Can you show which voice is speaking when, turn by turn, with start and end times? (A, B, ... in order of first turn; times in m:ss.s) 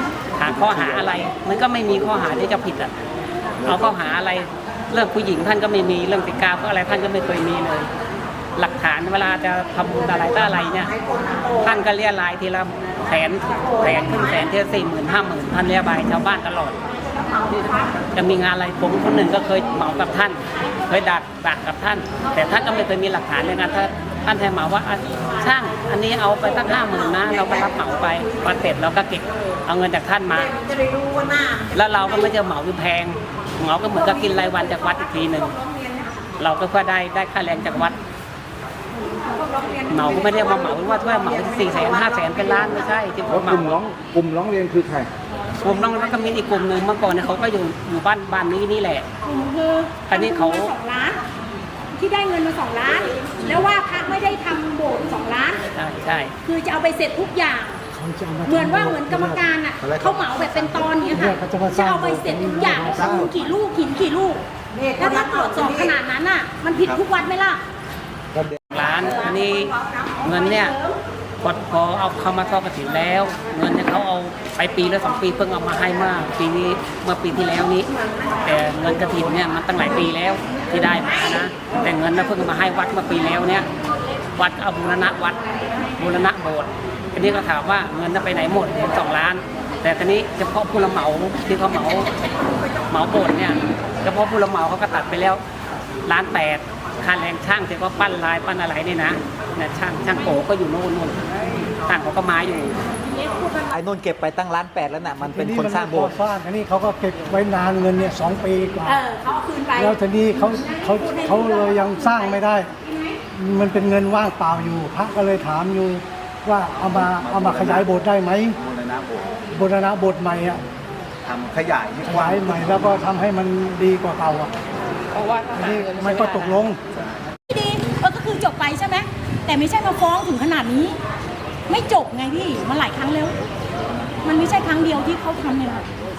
0:00.4-0:03.0 A
0:03.6-0:07.9 A
0:08.6-0:11.0 A
0:11.0-0:11.5 B
0:11.5-0:16.8 A
0:17.2-0:17.6 B
0:18.1-0:30.5 A
0:30.6-0:31.7 B
0:31.7-0:35.6 A
0:35.6-0:36.0 B
0:36.4-0:38.0 A
0:39.4-0:39.9 B
0:39.9-0:43.8 A
0:43.5-0:43.9 C
0:43.7-0:45.1 D
0:44.4-0:44.9 C
0:45.6-0:49.1 A
0:49.2-0:51.2 E
0:50.1-0:50.7 A
0:52.0-0:55.6 E
0:55.7-0:56.3 A
0:56.4-0:57.8 E
0:57.9-0:59.5 F
0:58.4-1:04.4 E
0:59.8-1:00.9 D
1:01.1-1:03.3 F
1:02.8-1:03.3 D
1:05.0-1:07.6 E
1:06.7-1:07.0 D
1:08.7-1:10.8 A
1:11.4-1:17.9 A
1:18.4-1:23.7 A
1:24.4-1:32.1 A
1:32.9-1:35.4 A
1:36.0-1:41.2 A
1:41.9-1:42.8 A
1:43.3-1:43.6 E
1:43.7-1:46.2 C
1:45.2-1:49.0 F
1:48.8-1:53.2 E
1:49.8-1:52.7 F
1:53.3-1:58.6 F
1:57.0-1:57.9 D
1:58.6-1:59.5 D
1:59.5-2:00.6 F
2:01.2-2:02.9 D
2:02.0-2:04.5 F
2:05.1-2:06.7 A
2:05.5-2:06.8 F
2:07.5-2:11.0 E
2:11.7-2:13.3 E
2:14.2-2:15.9 E